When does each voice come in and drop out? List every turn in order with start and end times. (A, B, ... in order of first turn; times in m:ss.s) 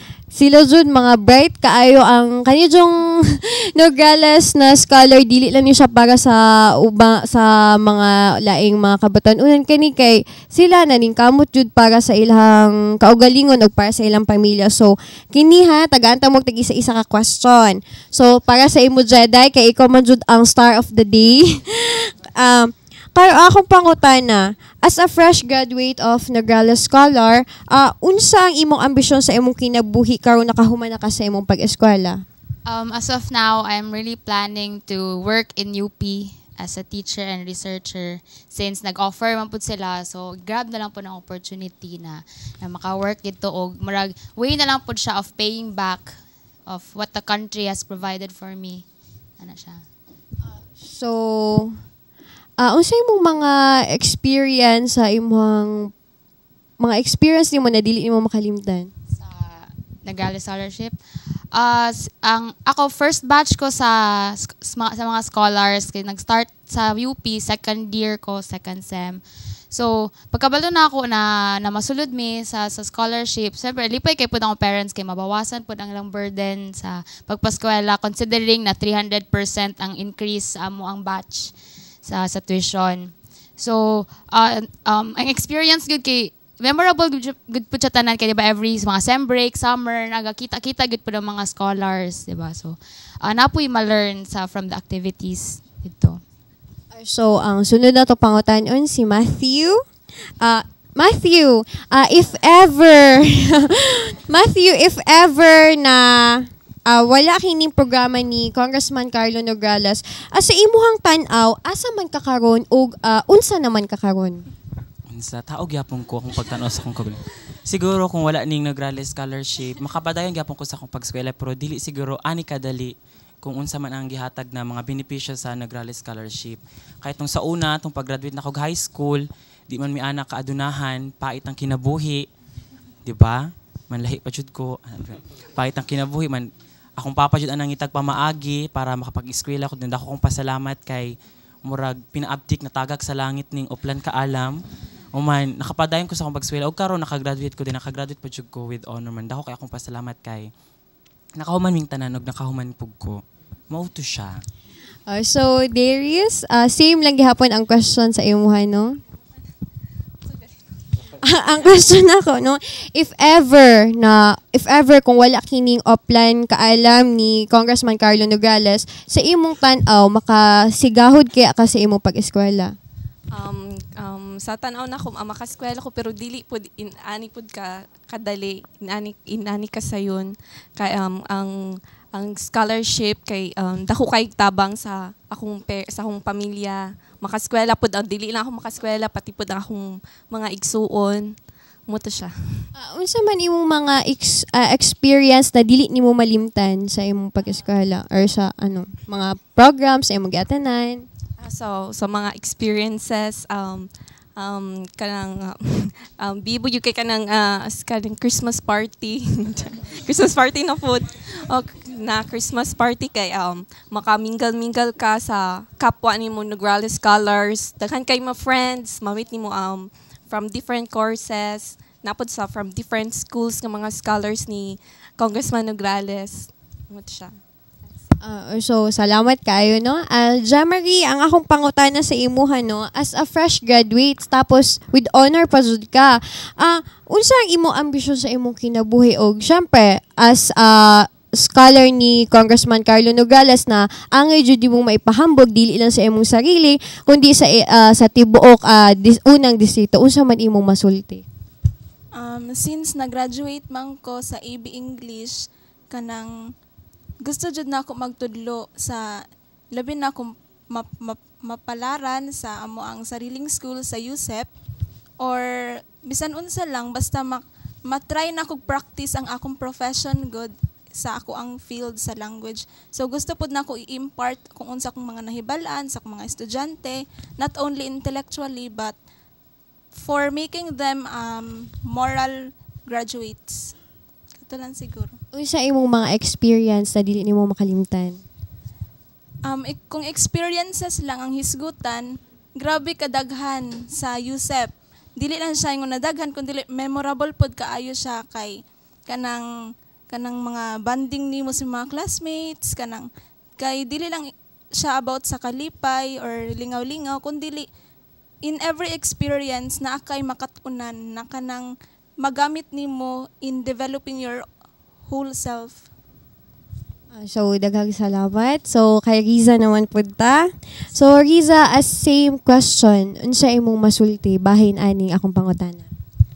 0:00.3-0:32.2 A
0:32.7-0:42.1 B
0:42.6-0:46.0 B
0:46.7-0:48.8 B
0:49.4-0:49.8 B
0:50.8-0:51.8 A
0:52.6-0:55.9 A
0:56.8-0:58.9 A
0:59.2-1:00.9 B
1:01.6-1:03.9 B
1:04.7-1:09.2 B
1:09.7-1:21.4 B
1:22.1-1:23.0 B
1:23.6-1:32.7 B
1:33.3-1:36.1 B
1:36.9-1:39.8 A
1:40.4-1:54.4 A
1:55.1-2:12.3 C
2:13.0-2:24.6 C
2:25.1-2:30.5 C
2:31.4-2:34.4 C
2:35.1-2:38.9 A
2:41.2-2:52.7 A
2:53.3-3:01.6 D
3:02.1-3:12.6 D
3:12.8-3:21.0 A
3:21.4-3:47.4 D
3:48.2-4:11.2 A
4:12.1-4:16.4 E
4:17.2-4:19.1 E
4:19.7-4:24.5 E
4:25.2-4:39.0 E
4:40.0-4:43.7 E
4:44.4-4:45.2 E
4:45.3-4:48.2 A
4:49.4-4:59.5 E
5:00.1-5:07.7 E
5:08.4-5:14.5 E
5:15.1-5:15.8 E
5:17.2-5:25.8 A